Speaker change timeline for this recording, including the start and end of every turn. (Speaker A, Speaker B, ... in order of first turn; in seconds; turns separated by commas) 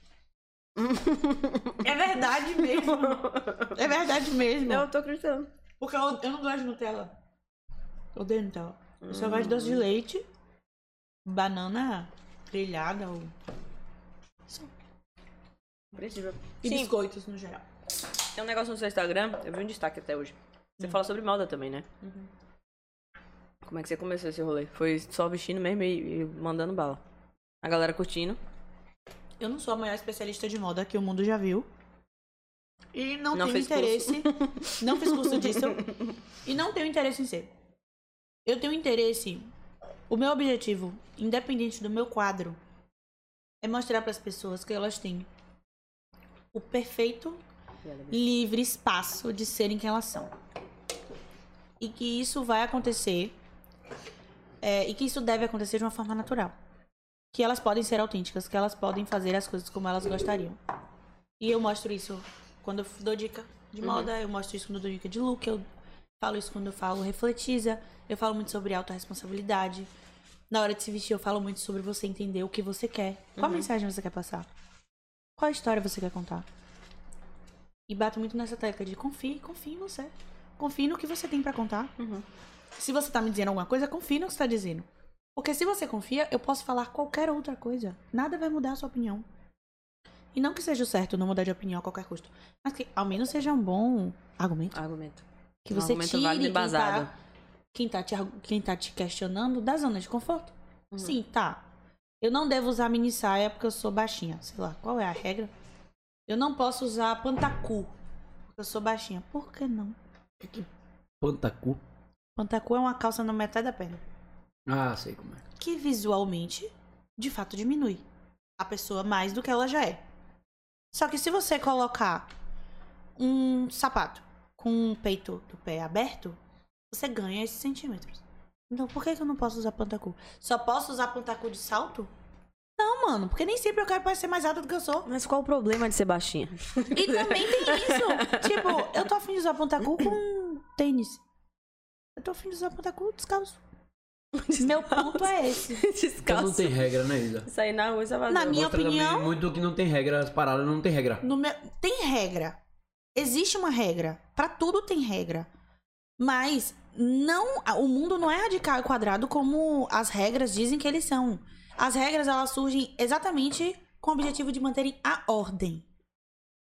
Speaker A: 0.8-1.8, Speaker B: 1.8-4.9, Speaker A: 2.6-3.8, Speaker A: 4.6-5.5, Speaker B: 5.8-7.1, Speaker B: 8.1-10.2, Speaker A: 9.0-9.8, Speaker B: 11.2-13.3, Speaker A: 15.9-16.9, Speaker B: 16.6-17.6, Speaker A: 18.4-21.9, Speaker B: 22.0-22.3, Speaker A: 23.6-27.0, Speaker A: 27.6-28.4, Speaker B: 29.4-31.7, Speaker B: 32.9-35.8, Speaker A: 33.3-35.9, Speaker B: 36.4-37.5, Speaker B: 38.5-39.5, Speaker B: 40.1-42.6, Speaker B: 43.6-45.3, Speaker B: 46.5-47.4, Speaker A: 47.8-48.2, Speaker B: 48.1-50.3, Speaker B: 51.8-53.3, Speaker B: 54.6-56.5, Speaker B: 57.3-60.6, Speaker B: 61.4-65.6, Speaker A: 63.8-64.1, Speaker B: 66.2-69.9, Speaker B: 70.5-74.5, Speaker A: 73.4-73.7, Speaker B: 75.4-76.5, Speaker B: 77.9-81.9, Speaker A: 82.0-82.2, Speaker B: 82.8-89.2, Speaker B: 90.3-94.8, Speaker A: 94.7-97.1, Speaker B: 95.6-97.1, Speaker B: 97.7-101.6, Speaker B: 102.2-105.5, Speaker B: 106.3-107.9, Speaker B: 108.5-110.7, Speaker C: 111.2-111.8, Speaker B: 112.3-114.0, Speaker C: 114.7-115.4, Speaker B: 115.6-118.0, Speaker B: 118.6-120.0, Speaker B: 120.9-122.3, Speaker B: 123.2-126.4, Speaker B: 126.9-132.1, Speaker B: 132.8-135.1, Speaker A: 135.1-139.0, Speaker B: 136.9-141.2, Speaker B: 142.2-143.6, Speaker A: 144.3-146.8, Speaker B: 144.6-145.8, Speaker C: 146.2-147.5, Speaker A: 147.4-148.6, Speaker B: 148.3-149.3, Speaker C: 148.4-151.2, Speaker B: 151.2-152.6, Speaker B: 153.2-155.5, Speaker B: 156.2-165.8